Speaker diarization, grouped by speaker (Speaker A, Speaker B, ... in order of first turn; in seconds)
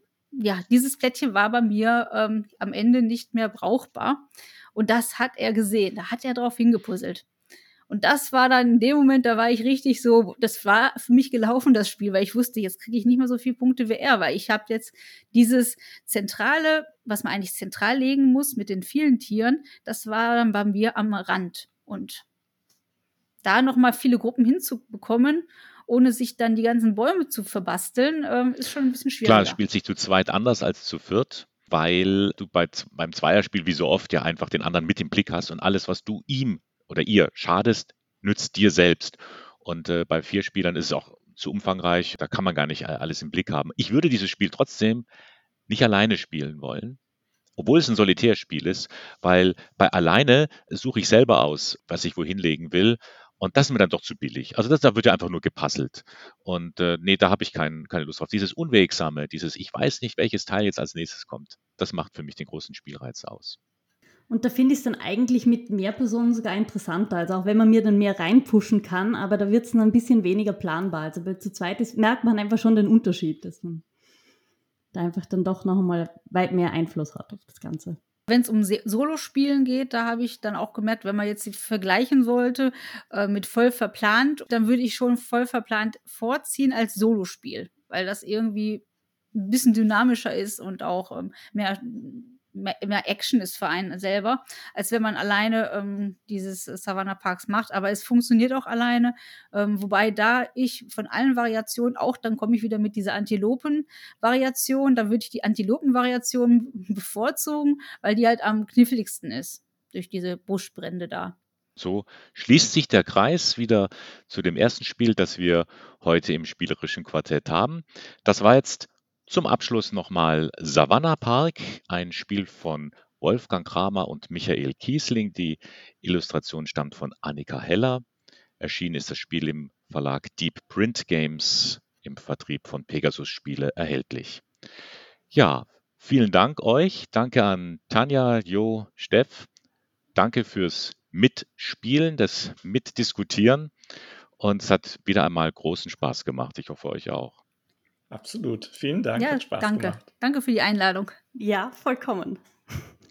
Speaker A: 0.3-7.2, 7.9-22.2, 23.4-29.6, 78.3-88.8, 89.3-111.3, 149.2-151.2
Speaker B: 29.2-45.1, 45.7-47.0, 47.6-63.6, 111.8-128.0, 128.6-134.4, 135.3-139.5, 140.2-143.7, 144.4-147.3
Speaker C: 64.3-73.8, 74.9-78.0, 151.3-152.9
Speaker D: 148.1-150.1